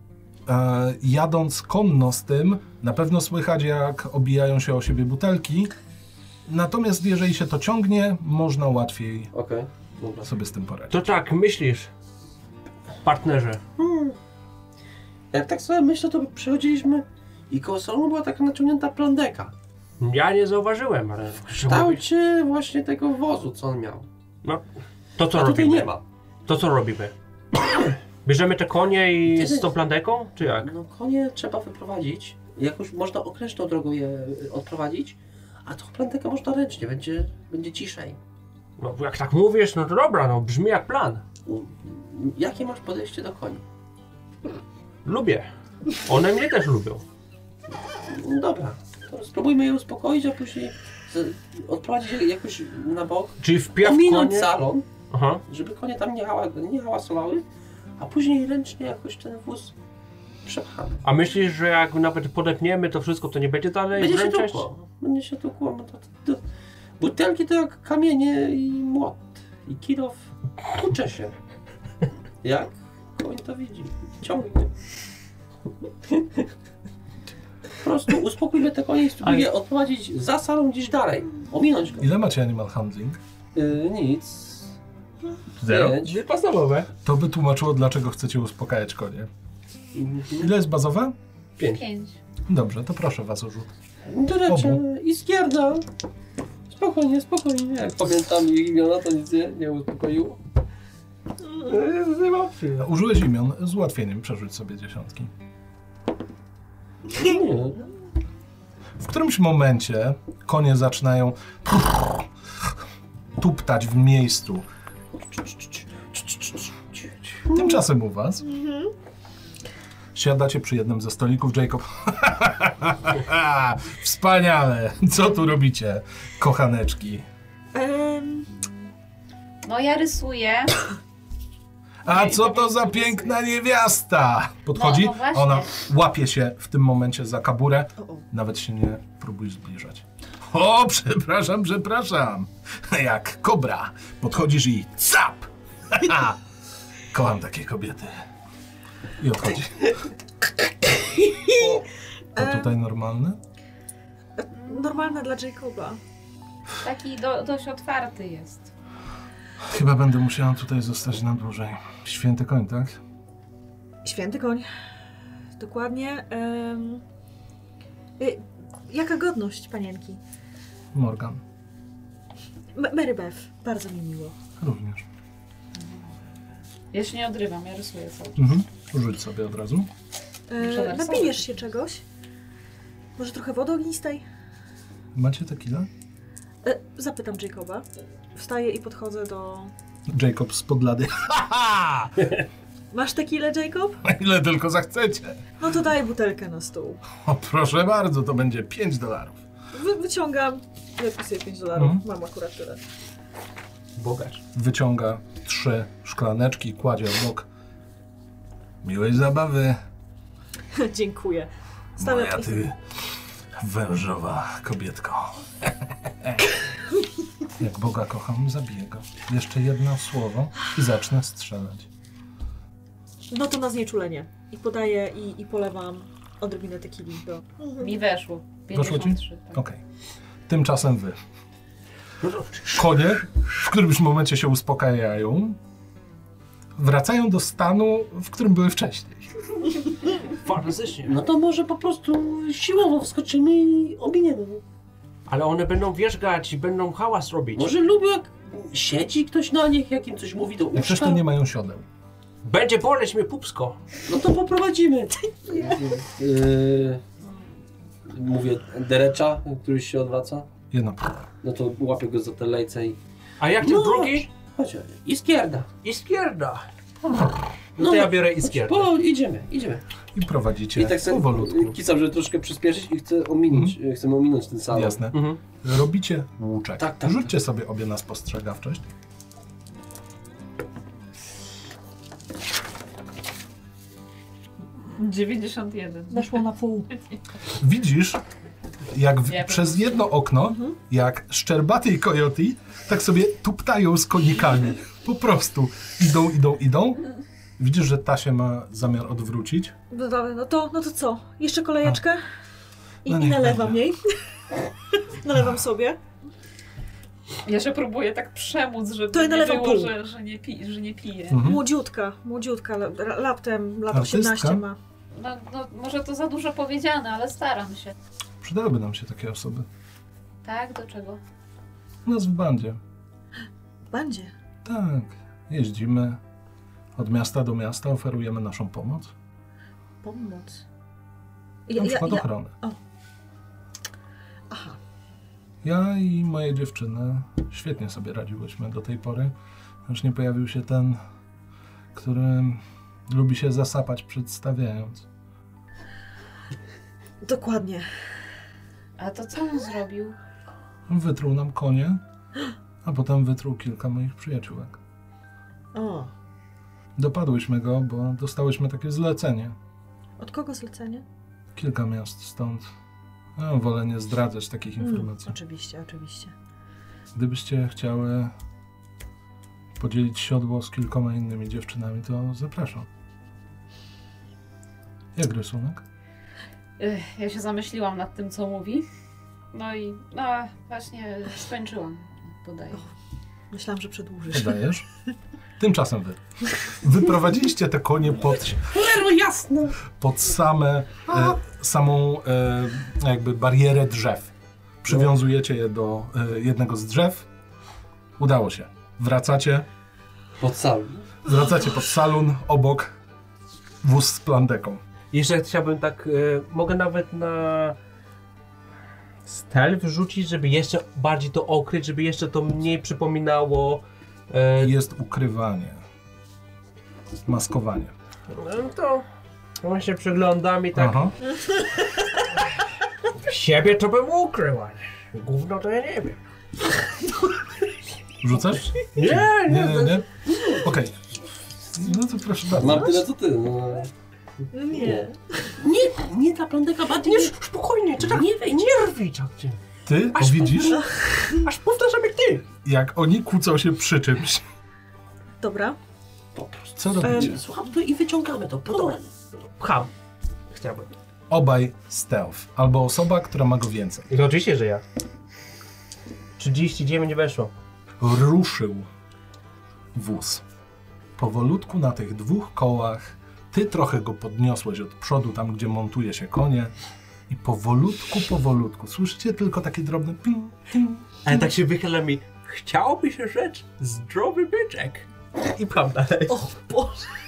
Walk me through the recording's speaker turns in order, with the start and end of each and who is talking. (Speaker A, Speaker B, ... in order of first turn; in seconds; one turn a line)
Speaker A: 0.5-5.7
Speaker A: 6.5-9.3
Speaker B: 9.3-10.3
Speaker A: 10.2-11.0
Speaker C: 10.9-11.9
Speaker C: 13.0-13.6
Speaker B: 13.8-14.2
Speaker B: 15.3-19.5
Speaker C: 20.0-22.0
Speaker B: 21.6-24.1
Speaker C: 25.2-25.9
Speaker B: 25.3-26.0
Speaker C: 26.5-27.1
Speaker C: 28.2-30.7
Speaker B: 29.3-29.7
Speaker B: 30.5-38.2
Speaker C: 38.8-41.2
Speaker B: 41.4-43.6
Speaker C: 45.0-47.0
Speaker B: 48.0-54.9
Speaker C: 53.4-54.5
Speaker C: 55.1-55.4
Speaker B: 55.5-57.4
Speaker B: 58.0-59.7
Speaker B: 60.4-61.0
Speaker C: 61.0-64.7
Speaker B: 64.0-66.4
Speaker B: 67.0-71.3
Speaker B: 72.4-74.7
Speaker B: 77.8-82.1
Speaker C: 79.2-79.5
Speaker A: 82.0-83.2
Speaker B: 83.5-84.7
Speaker C: 85.6-86.9
Speaker B: 85.6-86.2
Speaker A: 87.0-89.3
Speaker B: 89.9-90.5
Speaker A: 90.4-91.2
Speaker D: 91.6-92.2
Speaker A: 92.5-93.7
Speaker B: 94.0-95.8
Speaker A: 94.5-94.8
Speaker B: 96.7-100.4
Speaker C: 101.6-102.9
Speaker A: 102.8-105.3
Speaker B: 107.0-107.8
Speaker A: 109.0-112.3
Speaker A: 113.4-114.6
Speaker B: 116.2-117.8
Speaker A: 117.5-118.4
Speaker E: 118.4-118.9
Speaker A: 120.1-127.2
Speaker E: 127.7-128.5
Speaker D: 129.6-130.8
Speaker A: 132.0-146.4
Speaker D: 132.1-133.3
Speaker D: 134.7-135.7
Speaker A: 147.1-148.1
Speaker A: 149.2-150.0
Speaker E: 151.2-151.8
Speaker E: 152.3-152.7
Speaker A: 152.3-153.4
Speaker E: 154.4-156.0
Speaker D: 154.6-155.2
Speaker D: 156.8-158.7
Speaker A: 159.6-163.0
Speaker E: 164.0-164.7
Speaker E: 165.6-167.0
Speaker E: 168.2-170.2
Speaker A: 170.9-171.4
Speaker E: 172.7-174.3
Speaker A: 174.6-175.0
Speaker D: 176.9-178.5
Speaker A: 178.3-179.9
Speaker E: 180.5-182.0
Speaker D: 180.6-181.5
Speaker E: 183.2-184.2
Speaker A: 185.1-185.9
Speaker E: 186.6-189.7
Speaker A: 190.1-192.3
Speaker E: 192.9-194.0
Speaker A: 194.0-195.4
Speaker E: 195.6-197.0
Speaker A: 197.2-199.4
Speaker E: 199.7-202.8
Speaker A: 201.8-202.0
Speaker C: 203.9-204.4
Speaker A: 204.5-207.5
Speaker A: 208.8-209.8
Speaker E: 210.7-212.7
Speaker A: 212.0-216.4
Speaker A: 217.6-221.9
Speaker E: 223.3-227.9
Speaker D: 227.8-229.6
Speaker A: 228.7-229.8
Speaker A: 230.5-231.2
Speaker C: 232.2-232.7
Speaker A: 232.7-235.6
Speaker A: 236.8-239.3
Speaker C: 240.3-241.1
Speaker B: 241.0-244.6
Speaker C: 245.3-247.7
Speaker B: 247.5-251.2
Speaker A: 250.7-251.8
Speaker C: 252.4-253.8
Speaker B: 254.1-257.0
Speaker B: 258.1-260.5
Speaker A: 260.7-261.2
Speaker B: 261.4-263.0
Speaker C: 263.4-264.3
Speaker B: 263.6-265.7
Speaker C: 265.8-266.6
Speaker C: 267.8-268.9
Speaker B: 267.8-269.8
Speaker A: 270.1-271.8
Speaker B: 270.7-275.0
Speaker A: 273.5-273.8
Speaker A: 274.7-278.9
Speaker C: 275.1-275.4
Speaker B: 276.8-277.3
Speaker D: 285.0-286.5
Speaker E: 286.1-286.9
Speaker A: 287.6-288.2
Speaker A: 288.9-297.0
Speaker D: 289.3-289.9
Speaker E: 290.4-290.7
Speaker A: 297.6-299.7
Speaker E: 299.9-302.2
Speaker E: 303.0-304.1
Speaker A: 303.1-303.8
Speaker E: 304.9-306.0
Speaker D: 307.4-311.4
Speaker E: 309.1-309.9
Speaker A: 311.3-311.6
Speaker E: 311.4-314.8
Speaker A: 313.9-314.6
Speaker D: 315.1-317.9
Speaker A: 318.4-319.7
Speaker D: 320.4-321.2
Speaker A: 322.0-322.8
Speaker E: 323.9-324.3
Speaker A: 324.6-326.2
Speaker A: 326.9-329.1
Speaker E: 330.0-330.6
Speaker E: 331.7-332.8
Speaker A: 331.8-332.5
Speaker E: 334.5-334.8
Speaker A: 335.6-339.3
Speaker A: 339.9-341.0
Speaker A: 341.9-345.1
Speaker E: 347.2-347.9
Speaker D: 349.0-350.2
Speaker A: 350.9-352.0
Speaker A: 352.8-354.8
Speaker E: 355.7-356.1
Speaker A: 356.9-359.6
Speaker E: 360.2-361.0
Speaker A: 361.5-362.7
Speaker A: 363.4-365.4
Speaker E: 364.8-366.3
Speaker A: 367.1-368.3
Speaker A: 369.8-372.9
Speaker A: 375.1-375.8
Speaker D: 376.8-378.9
Speaker D: 379.5-382.8
Speaker E: 383.5-384.6
Speaker A: 384.3-384.8
Speaker A: 385.6-388.8
Speaker B: 388.7-389.8
Speaker A: 389.9-394.3
Speaker A: 394.8-397.3
Speaker A: 398.2-399.6
Speaker B: 400.4-401.1
Speaker A: 401.2-402.9
Speaker A: 403.8-404.8
Speaker C: 405.1-407.8
Speaker C: 409.2-414.7
Speaker A: 414.6-415.8
Speaker A: 417.2-417.9
Speaker C: 418.3-419.0
Speaker C: 419.6-421.1
Speaker A: 420.7-421.1
Speaker C: 423.1-426.2
Speaker A: 428.2-430.1
Speaker C: 428.9-430.1
Speaker B: 430.3-430.6
Speaker A: 430.6-430.9
Speaker A: 431.7-433.0
Speaker B: 432.6-433.9
Speaker E: 434.5-435.5
Speaker B: 434.7-435.1
Speaker B: 435.6-437.3
Speaker C: 437.0-439.6
Speaker B: 438.0-438.8
Speaker A: 439.9-440.8
Speaker C: 440.1-442.5
Speaker E: 440.8-441.4
Speaker A: 442.6-444.4
Speaker E: 445.4-445.8
Speaker B: 446.3-449.1
Speaker A: 446.8-447.4
Speaker E: 447.0-447.4
Speaker C: 449.6-449.9
Speaker C: 450.5-450.9
Speaker A: 451.3-454.1
Speaker C: 454.1-454.8
Speaker C: 456.4-457.5
Speaker A: 458.0-458.9
Speaker A: 459.9-460.4
Speaker A: 461.2-466.7
Speaker A: 467.3-471.0
Speaker C: 471.2-476.5
Speaker E: 476.3-477.1